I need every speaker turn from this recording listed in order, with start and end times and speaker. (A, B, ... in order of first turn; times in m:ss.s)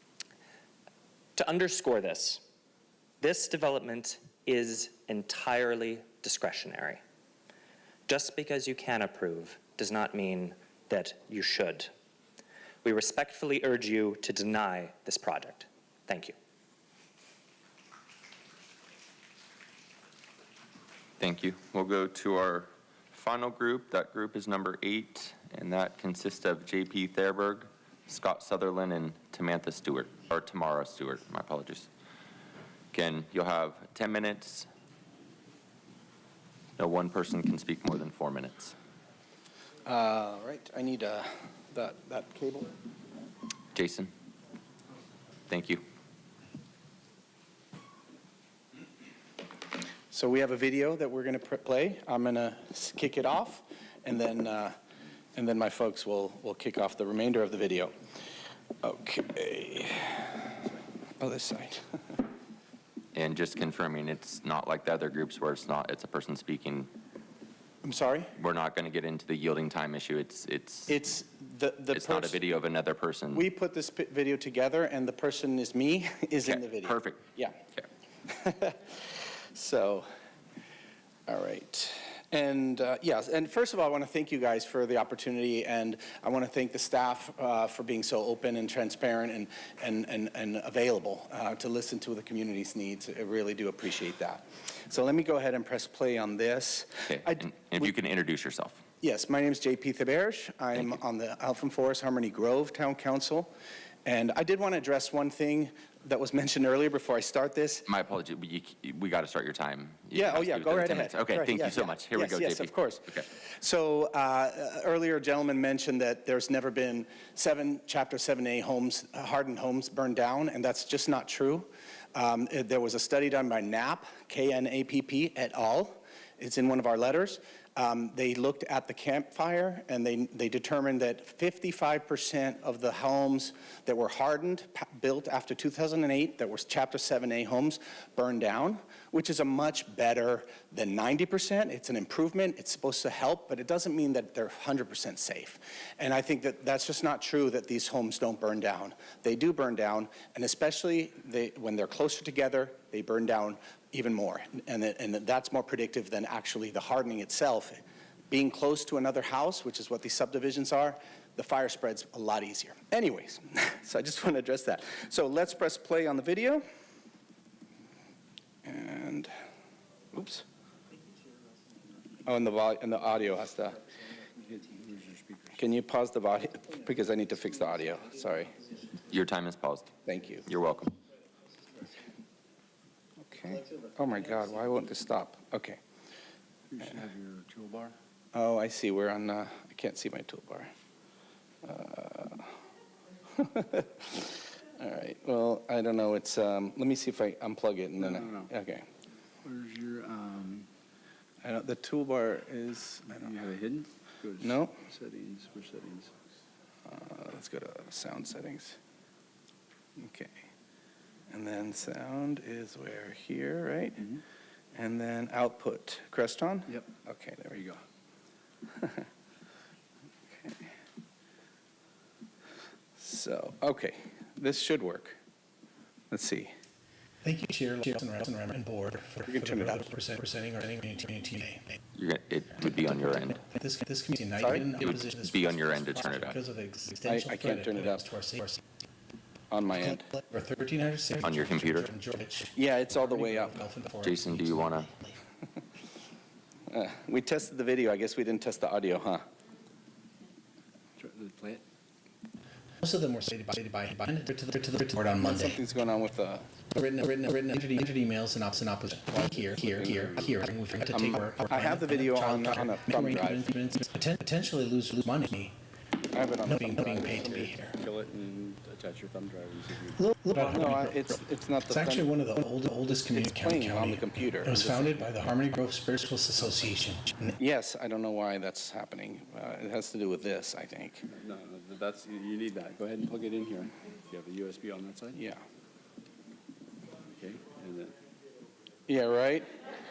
0:01.4-0:02.4 A
0:03.2-0:07.0 A
0:08.1-0:11.9 A
0:12.8-0:16.3 A
0:21.2-0:31.9 B
0:32.9-0:34.7 B
0:36.8-0:38.7 B
0:39.8-0:42.7 C
0:43.7-0:44.1 B
0:45.5-0:45.8 B
0:50.1-0:54.8 C
0:55.3-0:57.9 C
0:58.8-1:00.5 C
1:01.2-1:02.2 C
1:03.1-1:06.9 B
1:07.8-1:08.3 C
1:08.4-1:11.0 B
1:10.9-1:12.4 C
1:11.9-1:13.4 B
1:13.3-1:17.6 C
1:16.4-1:17.2 B
1:18.3-1:20.1 C
1:21.3-1:37.5 C
1:37.1-1:38.8 B
1:39.0-1:43.5 C
1:44.0-1:47.9 C
1:47.9-1:53.2 B
1:50.1-2:46.6 C
2:48.6-2:49.3 C
2:50.1-2:50.4 C
2:52.2-2:53.8 C
2:54.3-2:55.6 D
2:55.6-2:58.6 C
2:59.1-2:59.9 B
3:00.0-3:00.4 C
3:00.4-3:01.0 B
3:03.3-3:05.8 C
3:06.7-3:07.9 D
3:08.3-3:10.7 C
3:11.6-3:12.5 C
3:13.3-3:18.8 C
3:18.0-3:18.5 D
3:19.4-3:20.7 D
3:21.4-3:23.3 C
3:23.1-3:26.1 D
3:24.4-3:24.8 C
3:26.9-3:28.8 C
3:30.0-3:30.3 C
3:31.3-3:34.1 C
3:34.7-3:37.6 C
3:38.8-3:39.0 C
3:40.3-3:40.7 C
3:43.0-3:45.2 C
3:46.1-3:46.5 C
3:47.2-3:51.7 E
3:49.3-3:49.9 C
3:51.9-3:53.4 B
3:52.9-3:58.6 E
3:54.4-3:54.7 C
3:54.8-3:56.4 B
3:57.0-3:58.0 C
3:59.5-4:00.0 C
3:59.9-4:05.2 E
4:01.2-4:01.9 B
4:02.5-4:03.6 C
4:04.0-4:04.9 B
4:06.7-4:09.2 C
4:11.0-4:11.6 D
4:12.8-4:15.6 E
4:15.2-4:16.6 C
4:16.6-4:25.6 E
4:19.1-4:20.5 D
4:21.0-4:23.5 C
4:26.1-4:27.5 C
4:26.4-4:27.7 E
4:26.9-4:30.4 D
4:30.0-4:37.4 E
4:30.3-4:32.3 C
4:32.9-4:35.1 C
4:37.4-4:41.0 C
4:41.1-4:45.2 D
4:45.1-4:45.4 C
4:47.1-4:47.9 D
4:48.9-4:49.5 C